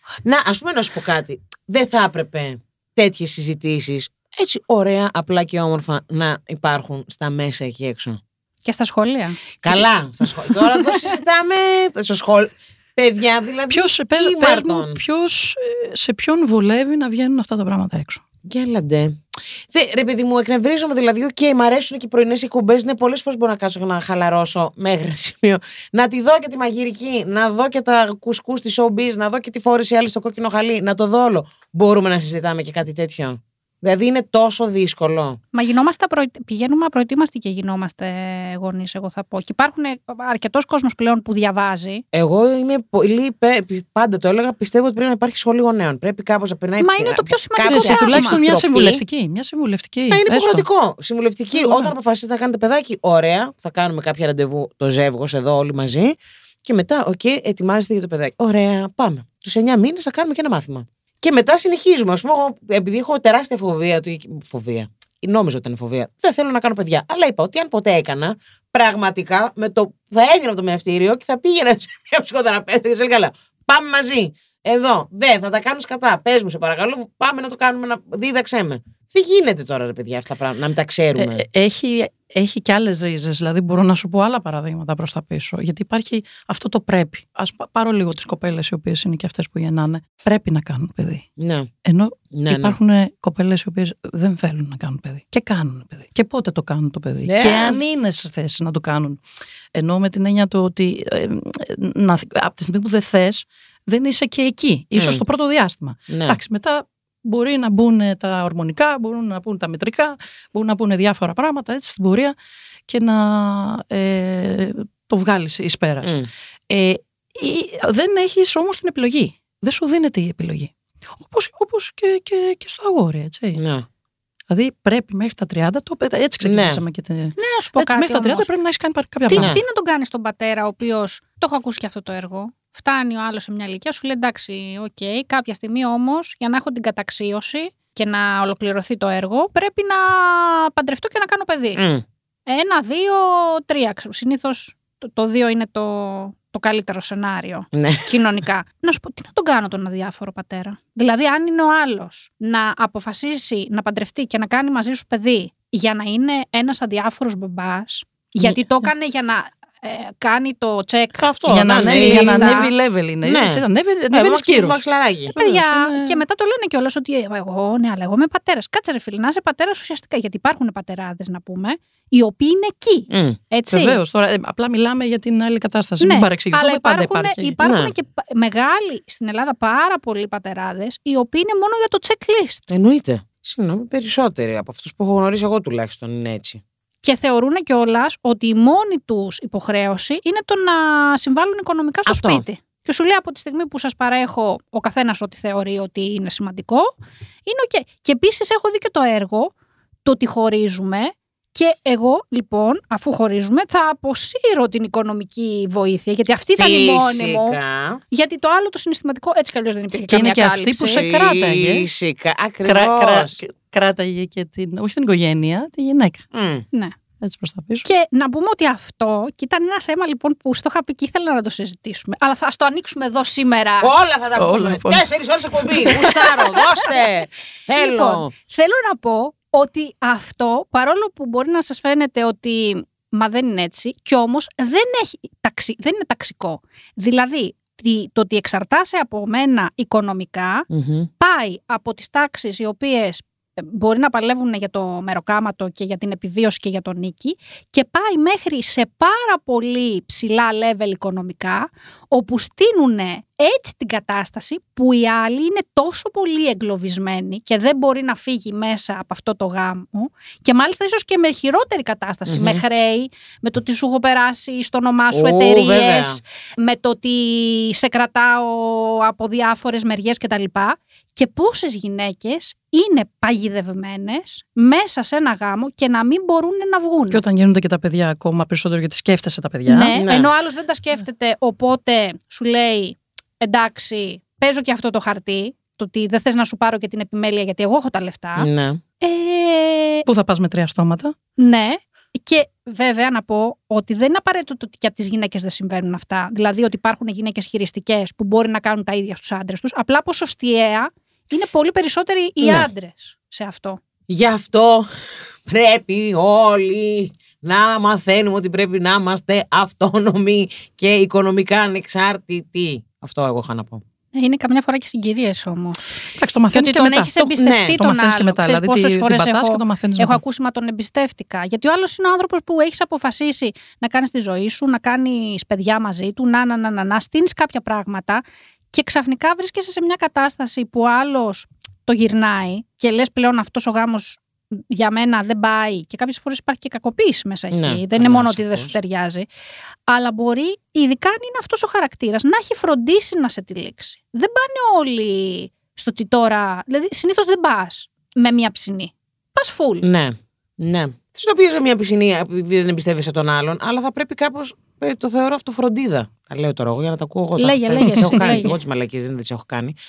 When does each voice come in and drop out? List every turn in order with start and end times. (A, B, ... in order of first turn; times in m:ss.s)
0:00.2-0:08.2 A
0:08.6-0:09.4 B
0:09.6-0:15.0 A
0:13.7-0:18.2 C
0:18.5-0:35.4 A
0:35.5-0:42.0 B
0:42.1-0:49.0 A
0:46.8-0:48.4 B
0:47.7-0:50.6 C
0:50.1-1:21.4 A
0:51.5-0:51.9 C
1:21.2-1:31.2 C
1:31.4-1:31.7 A
1:31.9-1:39.2 C
1:32.3-1:32.8 A
1:37.3-1:37.8 A
1:39.8-1:52.4 C
1:45.0-1:45.2 A
1:46.1-1:46.4 A
1:52.9-1:56.2 C
1:56.0-1:56.3 A
1:56.7-2:03.6 C
2:03.6-2:03.9 A
2:04.5-2:09.6 C
2:06.4-2:06.8 A
2:07.4-2:08.5 B
2:09.3-2:21.8 B
2:09.3-2:09.6 A
2:21.8-2:22.0 A
2:22.5-2:41.3 B
2:27.7-2:28.1 A
2:41.2-2:42.7 A
2:41.5-2:44.8 C
2:41.8-2:42.7 B
2:43.2-2:45.3 A
2:45.3-2:54.0 B
2:45.4-2:46.2 C
2:53.1-2:53.4 A
2:53.7-2:57.6 C
2:56.0-3:02.7 B
2:57.6-2:57.9 A
3:02.7-3:06.6 A
3:07.0-3:16.9 B
3:12.1-3:12.4 A
3:17.5-3:19.5 B
3:20.0-3:27.6 B
3:26.6-3:28.0 A
3:28.1-3:31.0 B
3:30.1-3:31.9 C
3:30.9-3:33.4 A
3:32.6-3:36.2 C
3:36.3-3:36.7 A
3:37.2-3:37.9 C
3:37.8-3:43.9 B
3:43.8-3:48.3 A
3:44.4-3:45.1 C
3:45.6-3:46.0 C
3:45.9-3:46.3 B
3:47.8-4:00.7 B
4:00.7-4:01.1 A
4:01.2-4:37.2 B
4:22.3-4:22.6 A
4:25.1-4:26.2 A
4:37.1-4:39.9 C
4:39.7-4:48.5 B
4:40.0-4:40.3 A
4:48.4-4:48.8 A
4:49.0-4:50.0 B
4:50.1-4:51.2 C
4:51.4-5:03.8 B
5:02.4-5:02.7 A
5:04.1-5:04.9 A
5:05.5-5:13.8 A
5:14.2-5:39.3 B
5:16.2-5:20.2 C
5:17.4-5:17.8 A
5:37.5-5:38.8 A
5:39.9-5:49.9 B
5:49.8-5:59.8 A
5:57.4-5:58.5 B
5:57.8-5:58.2 C